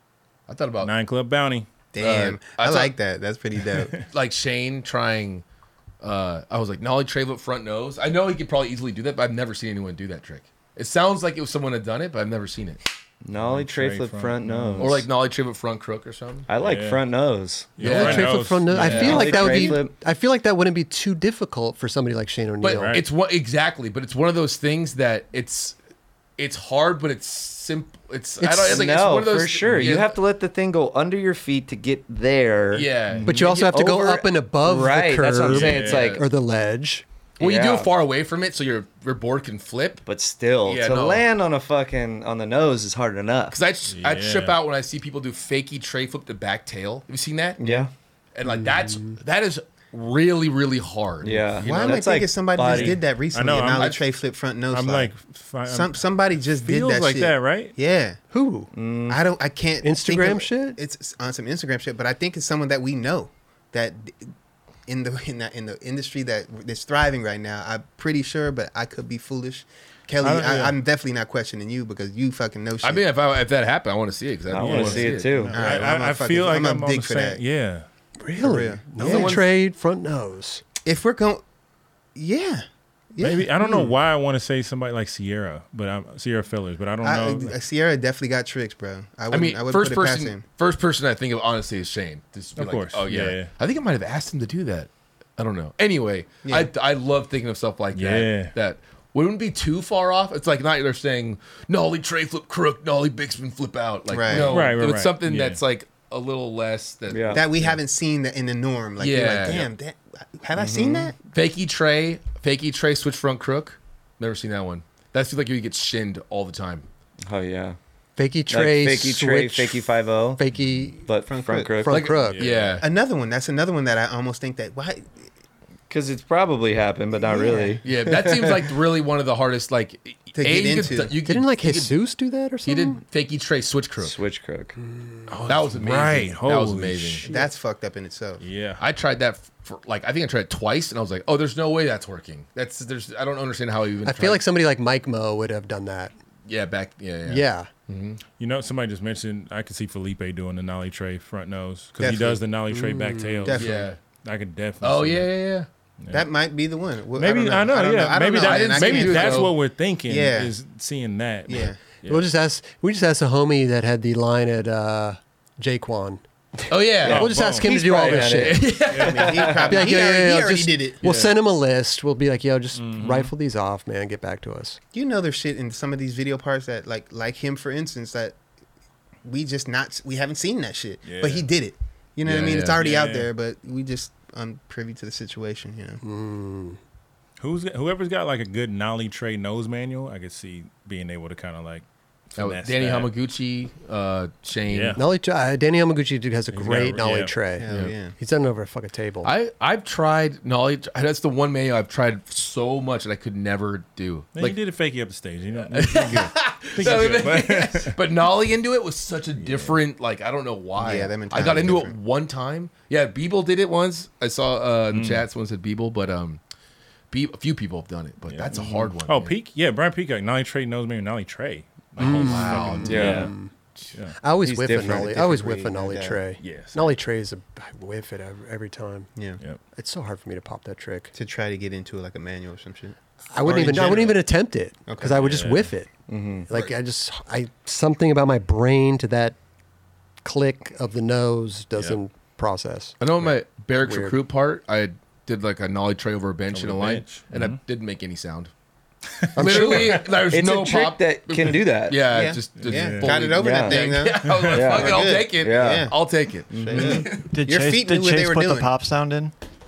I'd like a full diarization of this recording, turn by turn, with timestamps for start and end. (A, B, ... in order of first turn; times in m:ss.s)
0:00.5-0:00.9 A
0:00.8-0:01.7 B
0:01.9-0:04.0 C
0:02.0-0:02.9 A
0:04.1-0:05.4 A
0:06.0-0:12.8 A
0:13.2-0:15.0 D
0:13.3-0:15.0 B
0:14.8-0:16.5 A
0:16.5-0:17.8 D
0:16.6-0:17.0 B
0:17.8-0:19.4 B
0:17.8-0:19.7 A
0:17.8-0:23.0 E
0:18.8-0:19.9 D
0:22.6-0:25.8 A
0:22.8-0:23.0 B
0:26.4-0:30.2 A
0:28.4-0:32.9 D
0:29.7-0:29.9 B
0:32.7-0:33.8 A
0:33.1-0:33.3 B
0:33.2-0:37.0 E
0:33.7-0:36.2 D
0:35.5-0:36.1 B
0:35.6-0:36.2 A
0:37.4-0:37.9 D
0:37.4-0:40.0 A
0:40.0-0:43.6 D
0:40.6-0:41.2 A
0:43.5-0:52.0 A
0:43.9-0:44.6 B
0:47.6-0:47.9 D
0:48.6-0:49.1 E
0:51.2-0:53.0 D
0:51.6-0:55.1 C
0:52.6-0:54.0 B
0:54.7-0:57.7 B
0:55.6-0:58.2 C
0:58.3-0:58.7 E
0:58.7-0:59.2 D
0:59.1-1:04.3 C
0:59.8-1:00.8 E
1:04.9-1:13.0 C
1:10.2-1:10.8 B
1:12.8-1:15.4 A
1:14.5-1:15.6 D
1:14.5-1:17.8 B
1:15.5-1:17.4 C
1:18.2-1:20.6 E
1:18.4-1:19.4 C
1:19.0-1:19.4 A
1:20.8-1:21.4 C
1:22.1-1:23.9 C
1:23.2-1:27.6 B
1:27.0-1:30.4 C
1:29.3-1:47.8 A
1:32.6-1:33.5 B
1:36.4-1:36.7 C
1:37.9-1:38.5 B
1:44.1-1:44.7 C
1:44.3-1:45.6 B
1:47.1-1:47.4 D
1:47.3-1:51.1 C
1:49.0-1:49.7 A
1:50.6-1:51.1 D
1:51.2-1:56.9 A
1:57.2-1:57.8 D
1:58.2-2:01.1 E
1:58.5-2:00.4 D
2:01.0-2:02.1 D
2:01.3-2:01.8 C
2:01.8-2:02.4 E
2:01.9-2:02.8 A
2:02.2-2:02.8 B
2:02.8-2:05.3 C
2:05.9-2:08.6 D
2:07.3-2:07.8 C
2:07.8-2:11.9 A
2:10.3-2:11.2 C
2:11.2-2:13.0 E
2:12.6-2:14.2 A
2:14.0-2:14.8 D
2:14.9-2:15.2 E
2:15.3-2:17.3 B
2:15.5-2:17.3 A
2:17.2-2:18.4 C
2:18.4-2:18.8 B
2:18.8-2:24.4 A
2:24.0-2:26.1 E
2:26.5-2:28.2 A
2:27.3-2:27.7 E
2:28.4-2:35.3 B
2:32.0-2:32.4 C
2:32.7-2:33.4 E
2:33.4-2:33.9 C
2:33.6-2:34.0 A
2:34.8-2:35.7 A
2:36.0-2:36.3 B
2:36.1-2:39.5 C
2:37.1-2:42.3 B
2:38.4-2:39.5 A
2:40.1-2:40.5 C
2:41.5-2:41.8 C
2:42.1-2:48.6 E
2:46.7-2:49.5 A
2:47.0-2:48.6 D
2:47.0-2:49.6 B
2:49.0-2:51.0 C
2:49.2-2:49.5 D
2:49.6-2:54.8 E
2:52.7-2:53.3 B
2:54.9-2:58.4 C
2:59.2-3:06.0 C
3:01.0-3:01.5 B
3:02.2-3:02.8 A
3:02.7-3:03.3 B
3:06.0-3:06.8 E
3:07.4-3:13.1 B
3:12.4-3:15.0 A
3:14.7-3:15.0 B
3:15.0-3:19.3 E
3:16.5-3:17.3 B
3:17.6-3:18.1 C
3:19.2-3:24.6 A
3:24.3-3:28.0 B
3:25.7-3:36.4 A
3:29.4-3:29.8 B
3:30.8-3:32.0 C
3:34.9-3:35.2 B
3:37.1-3:39.3 A
3:38.5-3:38.9 D
3:39.0-3:43.3 B
3:42.0-3:43.3 A
3:42.0-3:43.5 E
3:42.8-3:43.3 D
3:44.2-3:49.1 E
3:44.4-3:45.2 D
3:44.8-3:46.2 C
3:46.4-3:46.9 B
3:49.8-3:51.1 E
3:51.1-3:54.1 C
3:53.3-3:55.9 E
3:53.6-3:54.1 A
3:54.9-3:55.2 C
3:55.1-3:55.7 B
3:56.1-3:56.5 D
3:56.5-3:59.4 E
4:00.2-4:03.0 E
4:03.0-4:08.5 A
4:03.8-4:04.2 E
4:06.5-4:07.6 B
4:09.2-4:10.1 B
4:09.3-4:10.1 E
4:09.4-4:17.2 A
4:10.3-4:12.1 D
4:12.0-4:15.9 C
4:12.6-4:13.2 B
4:13.4-4:13.9 D
4:14.2-4:14.7 B
4:14.5-4:15.9 D
4:16.5-4:17.1 D
4:16.5-4:18.7 C
4:17.1-4:19.3 F